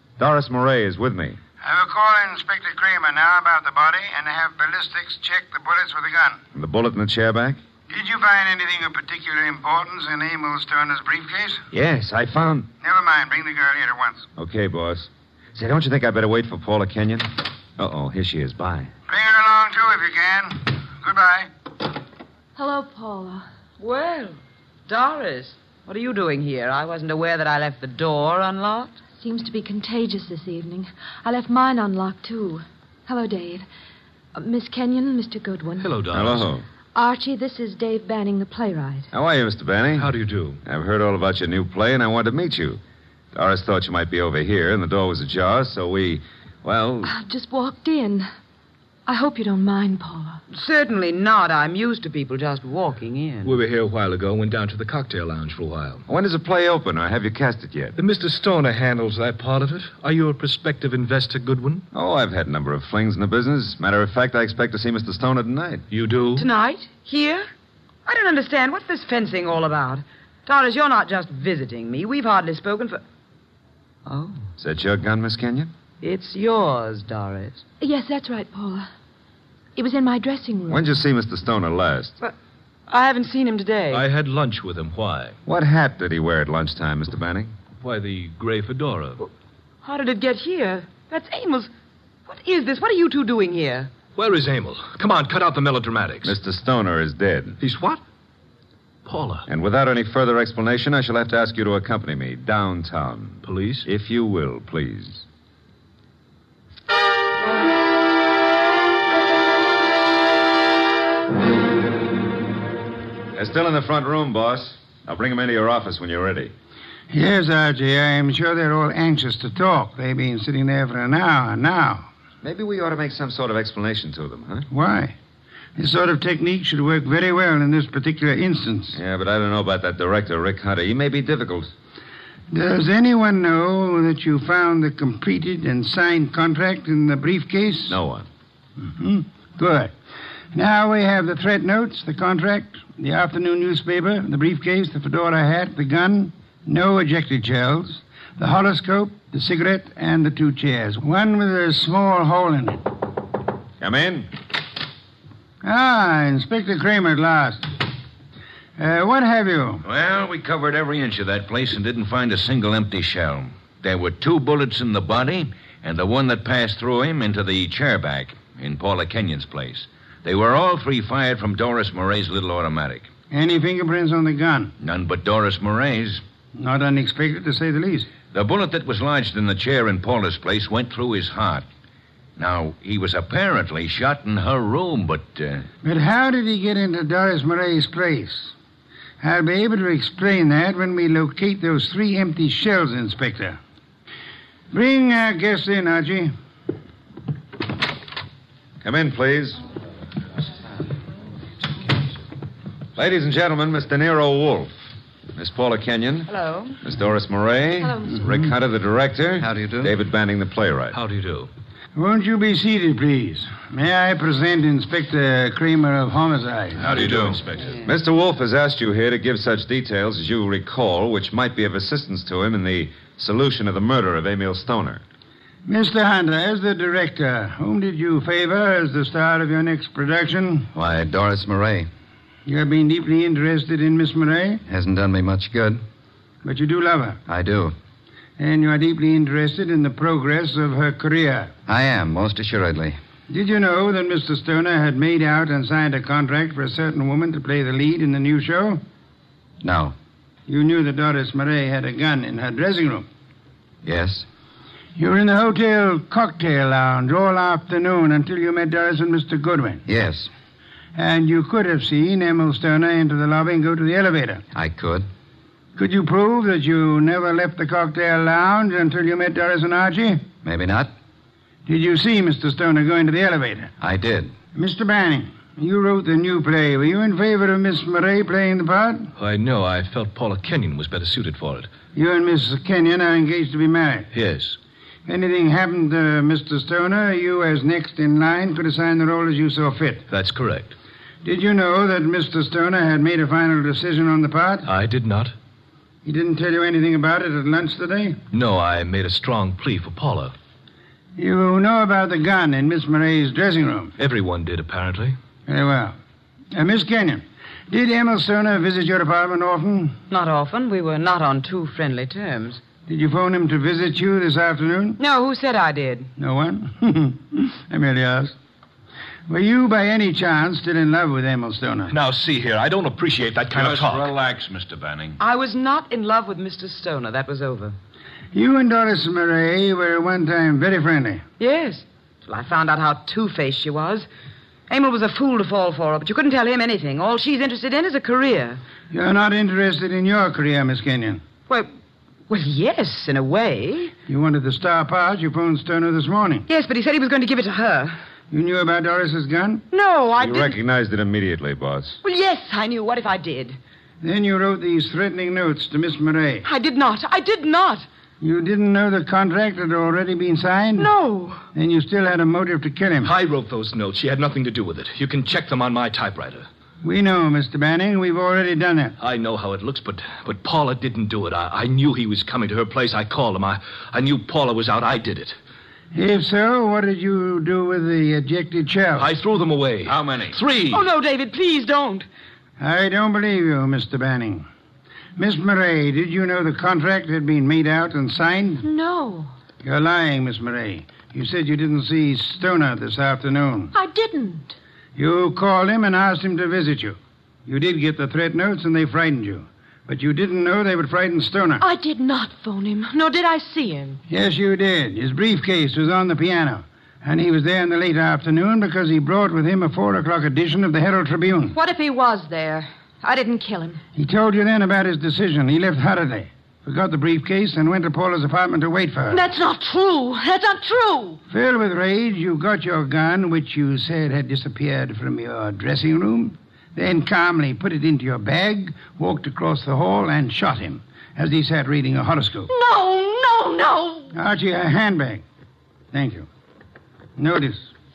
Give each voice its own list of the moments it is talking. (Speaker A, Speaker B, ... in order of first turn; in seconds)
Speaker A: 0.2-1.4, 6.5-7.6, 11.7-12.7, 14.4-18.9, 36.1-36.6, 39.1-40.1, 40.6-42.8, 43.3-47.1, 56.1-58.0, 61.9-65.8, 74.6-75.7, 80.7-82.2, 85.5-87.5, 96.2-97.6, 99.5-105.2, 113.3-116.5, 122.4-124.7, 128.9-131.7, 137.9-138.3, 153.8-154.3, 198.8-199.6, 202.9-204.7, 205.3-211.0, 217.8-225.0, 350.2-352.0
Speaker B: 1.6-6.4, 7.9-11.6, 12.8-14.3, 19.1-21.5, 117.1-122.1, 124.7-125.2, 125.8-129.0, 132.5-138.0, 138.8-139.9, 140.5-152.8, 155.6-157.7, 158.8-159.8, 173.3-174.7, 176.6-178.1, 185.8-188.5, 189.2-193.6, 194.7-196.3, 211.9-216.9, 225.7-230.7, 232.4-234.6, 236.4-237.2, 238.4-241.5, 243.3-248.8, 250.5-253.1, 254.9-259.8, 260.9-264.4, 265.8-270.2, 271.6-273.7, 274.5-279.1, 281.9-284.1, 285.1-290.1, 291.2-294.7, 296.0-298.2, 301.2-303.9, 305.5-305.9, 306.5-310.0, 312.9-315.0, 316.2-318.3, 319.3-321.9, 328.3-331.2, 338.9-341.2, 344.1-346.4, 348.3-349.6, 354.0-356.5, 358.2-360.9, 361.5-363.1, 366.8-368.9, 375.9-379.1, 382.6-384.5, 385.2-388.6, 389.6-393.7, 394.9-401.6, 404.1-411.6, 413.9-419.3, 421.3-432.5, 434.1-435.2, 435.9-436.3, 437.2-437.7
Speaker C: 22.6-23.4, 29.2-33.6, 34.3-36.0, 36.9-39.1, 47.0-48.3, 49.0-50.4, 77.8-78.9, 79.8-81.0, 207.8-208.5, 360.8-361.4, 388.6-389.3, 393.7-394.6, 401.6-404.0, 411.5-413.8, 419.1-421.2, 432.5-434.1
Speaker D: 23.8-28.9, 50.5-53.6, 66.3-67.5, 68.0-73.0, 74.0-74.5, 76.0-77.6, 82.9-84.0, 89.8-91.7, 92.3-93.9, 206.3-206.8, 310.1-312.6, 315.0-316.1, 325.2-327.8, 331.4-334.1, 334.7-338.6, 342.3-343.9, 346.5-347.9, 349.7-350.6, 352.0-353.6, 356.4-357.9, 380.7-382.1
Speaker E: 35.8-36.5, 40.0-40.6, 53.4-56.0, 58.0-61.9, 65.9-66.5, 83.9-85.4, 87.8-89.2, 94.2-96.3, 97.6-98.0, 99.0-99.5, 103.4-103.9, 210.9-211.5, 216.8-217.8, 279.2-281.7, 284.1-284.6, 290.1-290.7, 294.6-295.3, 298.3-300.3, 304.0-305.2, 321.9-324.1, 363.0-366.5, 369.0-375.4, 379.0-380.8
Speaker F: 159.8-173.1, 174.8-176.2, 178.3-181.7, 182.4-185.7, 323.5-325.2, 379.8-380.6
Speaker G: 209.4-209.9, 230.7-231.9, 234.7-235.8, 237.3-237.7, 241.7-243.0, 249.6-249.9, 253.8-254.2, 259.9-260.3, 264.5-265.1, 270.4-270.9, 273.8-274.3